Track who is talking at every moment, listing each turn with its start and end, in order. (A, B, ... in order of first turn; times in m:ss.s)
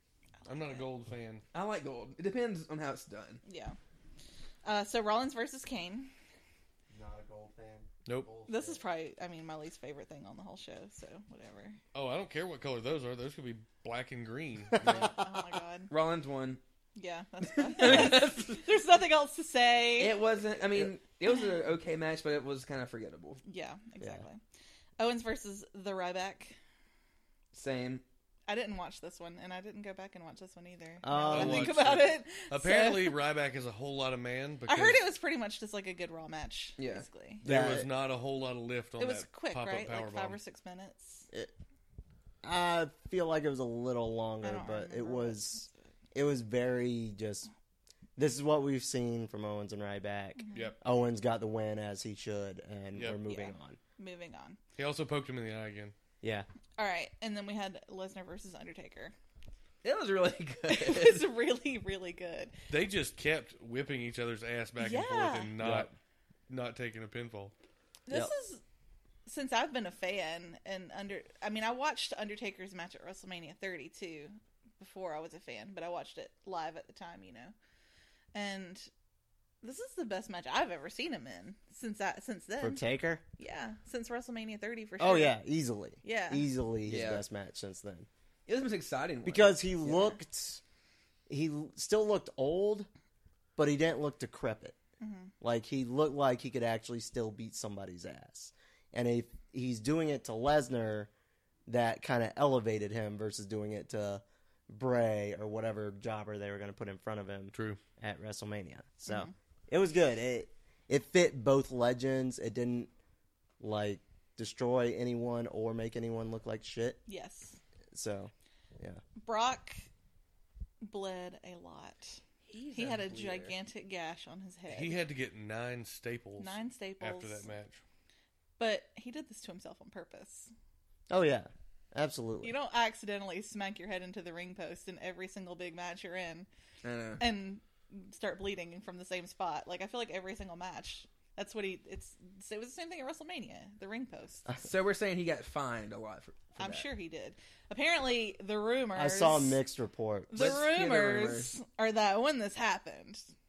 0:00.4-0:00.8 A
0:00.4-0:01.4 B
0:01.5-0:03.4 C
0:03.4-0:03.8 A
0:04.6-0:06.1 A
0:06.9-0:08.8 D
0:08.5-0:11.8 A
0:11.9-0:15.1 B
0:14.7-0:15.1 D
0:14.8-0:15.9 A
0:15.9-0:16.6 C
0:17.0-0:20.2 A
0:17.4-0:18.6 C
0:20.0-0:23.4 C
0:23.4-0:24.4 A
0:25.0-0:26.6 A
0:27.5-0:28.0 C
0:28.5-0:33.2 A
0:31.0-0:32.0 D
0:31.2-0:35.0 B
0:34.7-0:37.4 A
0:36.8-0:37.0 C
0:37.4-0:40.4 B
0:37.4-0:37.9 D
0:39.0-0:41.3 A
0:42.4-0:47.5 D
0:44.4-0:45.7 A
0:48.2-0:53.8 D
0:50.4-0:50.7 A
0:53.0-0:53.2 B
0:53.2-0:54.6 A
0:54.8-0:55.9 B
0:56.2-0:56.5 D
0:56.8-0:59.1 A
0:59.8-1:01.3 C
1:00.7-1:02.5 A
1:02.7-1:06.0 B
1:04.8-1:05.5 A
1:05.6-1:05.9 D
1:06.5-1:07.5 B
1:08.1-1:08.6 A
1:09.3-1:17.5 A
1:18.3-1:18.9 A
1:19.6-1:22.8 A
1:22.6-1:23.2 D
1:23.4-1:25.3 A
1:25.0-1:28.1 D
1:26.0-1:26.4 A
1:26.9-1:27.2 C
1:28.5-1:29.6 C
1:29.2-1:30.6 D
1:29.8-1:30.2 A
1:31.3-1:32.9 D
1:33.6-1:34.8 D
1:35.0-1:35.3 A
1:35.4-1:41.1 D
1:41.7-1:52.9 D
1:47.5-1:47.8 B
1:49.1-1:49.3 A
1:53.6-1:57.0 D
1:57.1-1:57.6 A
1:57.9-1:59.0 D
1:59.2-1:59.8 A
2:00.9-2:02.2 A
2:02.5-2:03.5 C
2:02.7-2:05.0 A
2:04.7-2:07.8 B
2:06.4-2:07.5 A
2:08.6-2:10.5 A
2:11.1-2:12.5 D
2:12.4-2:16.5 A
2:16.8-2:17.2 C
2:17.2-2:24.5 A
2:24.6-2:26.9 C
2:26.6-2:29.6 A
2:28.9-2:30.3 D
2:30.3-2:33.3 A
2:30.3-2:31.6 C